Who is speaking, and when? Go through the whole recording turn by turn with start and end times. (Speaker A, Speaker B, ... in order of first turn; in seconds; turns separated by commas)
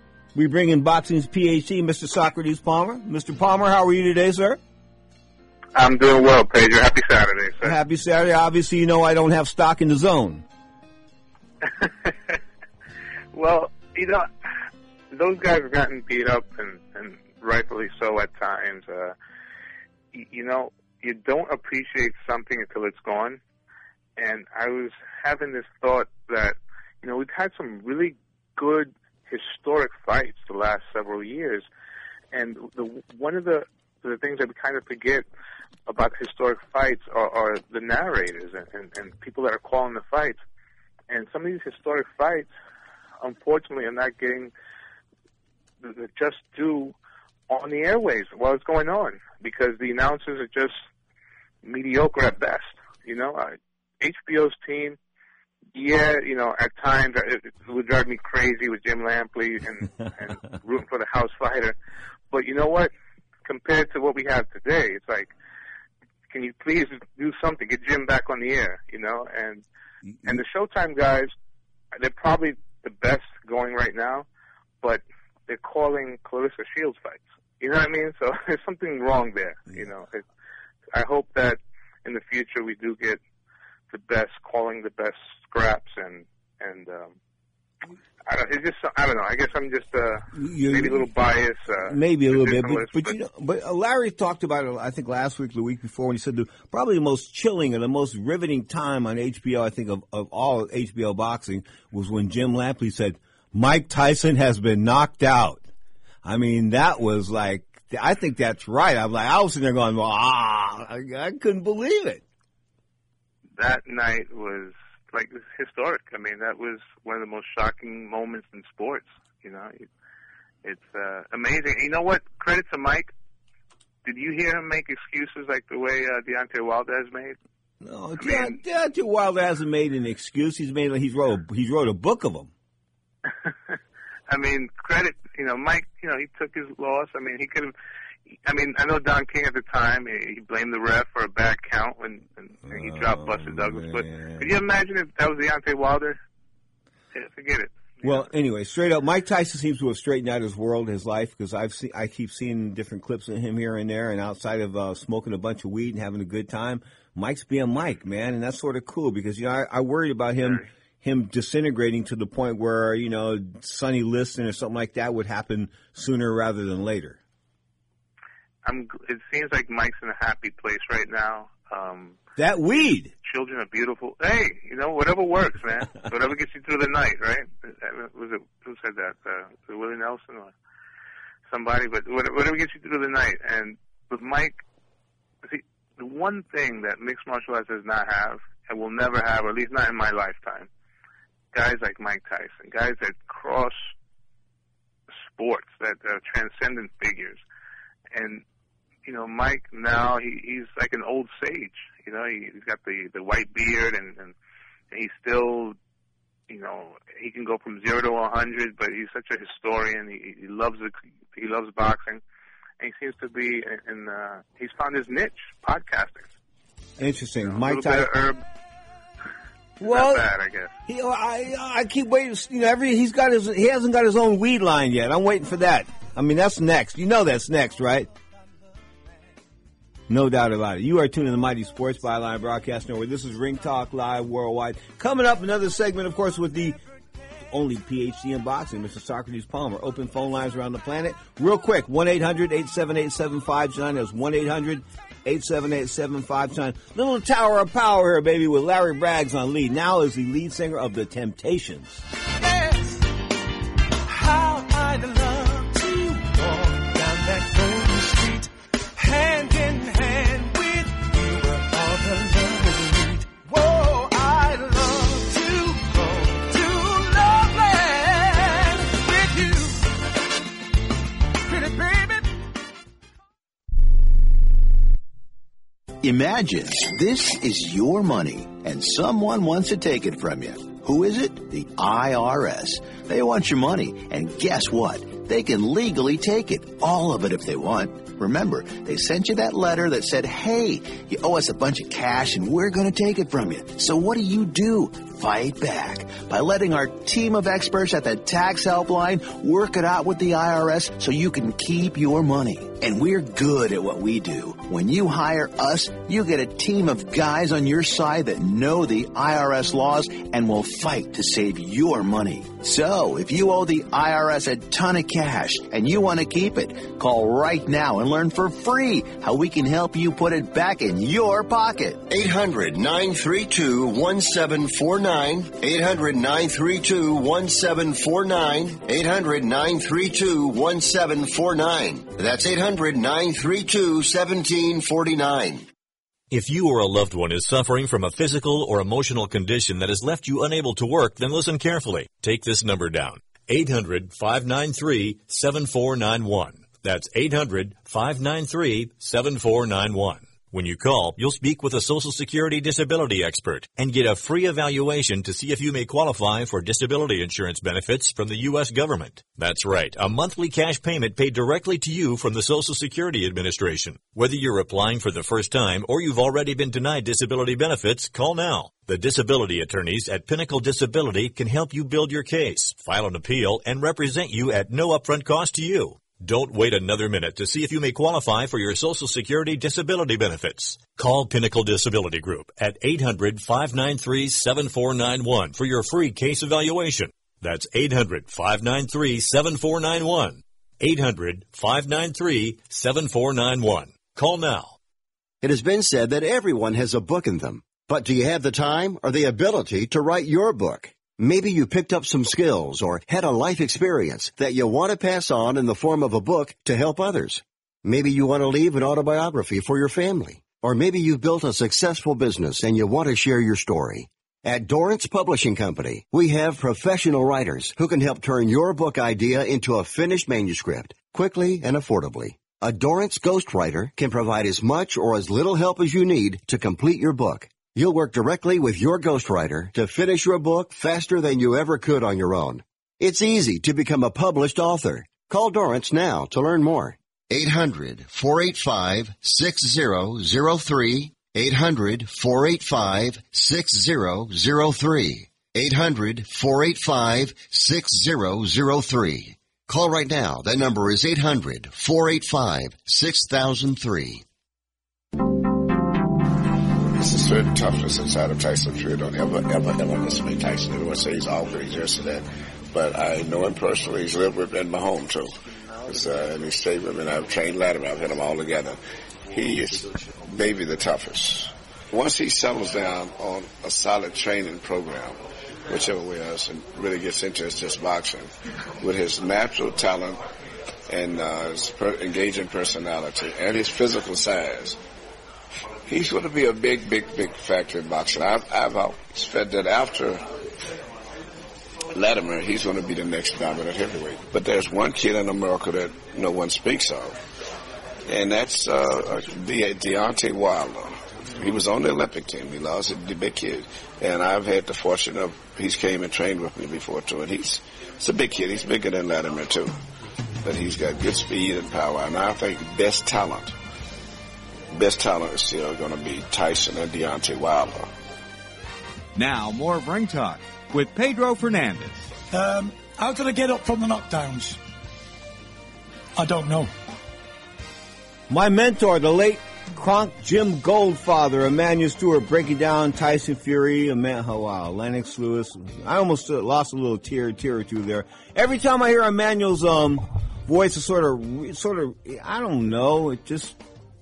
Speaker A: 0.3-4.6, Speaker B: 5.7-7.7, Speaker A: 7.6-10.4, Speaker B: 11.6-12.4, Speaker B: 13.3-14.3, Speaker B: 15.1-19.1, Speaker B: 20.1-23.4, Speaker B: 24.2-31.7, Speaker B: 32.3-35.3, Speaker B: 35.9-40.4, Speaker B: 41.1-42.5, Speaker B: 43.2-44.5, Speaker B: 45.8-46.9, Speaker B: 47.5-50.8, Speaker B: 51.6-55.0, Speaker B: 55.7-61.7, Speaker B: 62.3-62.9, Speaker B: 63.5-65.3, Speaker B: 66.3-69.6, Speaker B: 70.2-71.3, Speaker B: 71.9-74.2, Speaker B: 74.8-80.2, Speaker B: 80.9-83.2, Speaker B: 83.9-87.2, Speaker B: 88.2-93.1, Speaker A: 90.3-91.1, Speaker A: 91.8-105.6, Speaker A: 106.2-112.2, Speaker B: 113.6-119.9, Speaker B: 120.6-123.1, Speaker B: 124.0-127.3, Speaker A: 127.8-132.5, Speaker B: 128.2-128.6, Speaker B: 133.3-133.7, Speaker B: 134.3-137.7, Speaker B: 138.4-146.2, Speaker A: 142.7-144.6, Speaker B: 147.1-148.2, Speaker A: 148.0-167.2, Speaker B: 168.6-172.2, Speaker A: 172.4-173.1, Speaker B: 173.2-180.5, Speaker B: 181.5-184.6, Speaker B: 185.4-190.7, Speaker B: 191.5-193.9, Speaker B: 195.2-197.4, Speaker B: 198.1-198.4, Speaker B: 199.0-204.3, Speaker B: 204.9-205.8, Speaker B: 206.5-212.2, Speaker B: 212.8-216.3, Speaker A: 217.0-218.1, Speaker B: 217.5-218.4, Speaker A: 219.8-220.3, Speaker B: 219.8-220.7, Speaker A: 220.9-228.1, Speaker A: 230.1-236.8, Speaker A: 237.5-252.0, Speaker C: 252.4-253.1, Speaker C: 254.1-269.8, Speaker C: 271.5-272.3, Speaker D: 276.0-322.0, Speaker E: 322.1-335.7, Speaker F: 336.3-394.8, Speaker E: 395.4-454.2, Speaker G: 456.9-465.3, Speaker G: 465.8-468.8, Speaker G: 469.3-480.2, Speaker G: 480.9-484.8, Speaker G: 485.9-490.2, Speaker G: 491.9-497.1, Speaker G: 498.1-509.7, Speaker G: 510.4-513.5, Speaker G: 514.7-517.9, Speaker H: 519.1-522.1, Speaker I: 522.3-524.5, Speaker I: 526.2-526.6, Speaker A: 528.3-543.6